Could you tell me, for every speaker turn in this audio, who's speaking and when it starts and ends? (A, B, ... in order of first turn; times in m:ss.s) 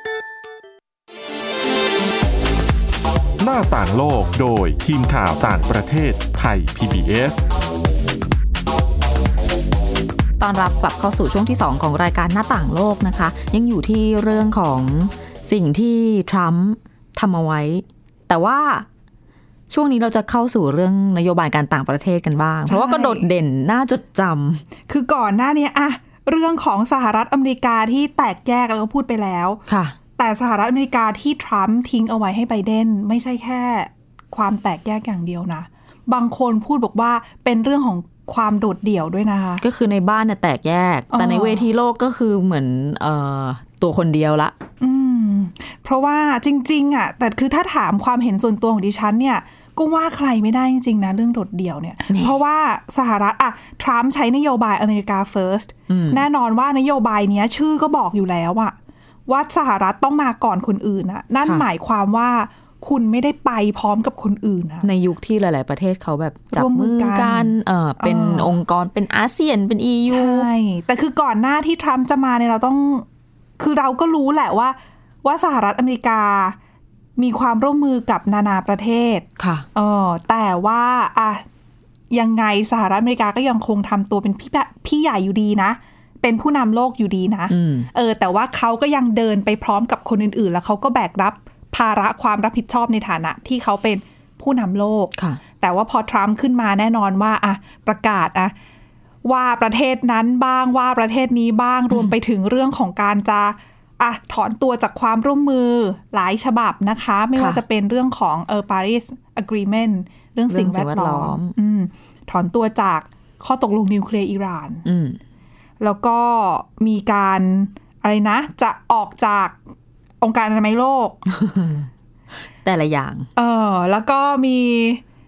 0:03.4-0:07.4 A
0:10.4-0:18.9 B
0:19.7-0:24.6 B
0:22.7-0:23.2 C
0:24.9-0:29.6 C
0:29.7-0:30.0 B
0:30.2-0:39.6 C
0:39.6-0:44.5 B
0:41.1-0:41.6 C
0:44.8-0:58.8 C
0:52.1-0:52.4 B
0:55.9-0:56.2 B
0:59.3-1:04.9 C
1:04.8-1:10.5 B
1:06.5-1:08.5 C
1:10.1-1:13.1 C
1:13.6-1:16.6 C
1:17.2-1:21.4 C
1:19.4-1:19.7 B
1:22.1-1:38.5 C
1:27.5-1:27.9 B
1:39.2-1:54.9 C
1:47.4-1:47.6 B
1:50.5-1:51.5 B
1:54.9-1:55.2 B
1:55.8-1:59.6 C
2:00.2-2:01.2 C
2:01.3-2:01.9 B
2:02.6-2:03.3 B
2:03.4-2:05.0 C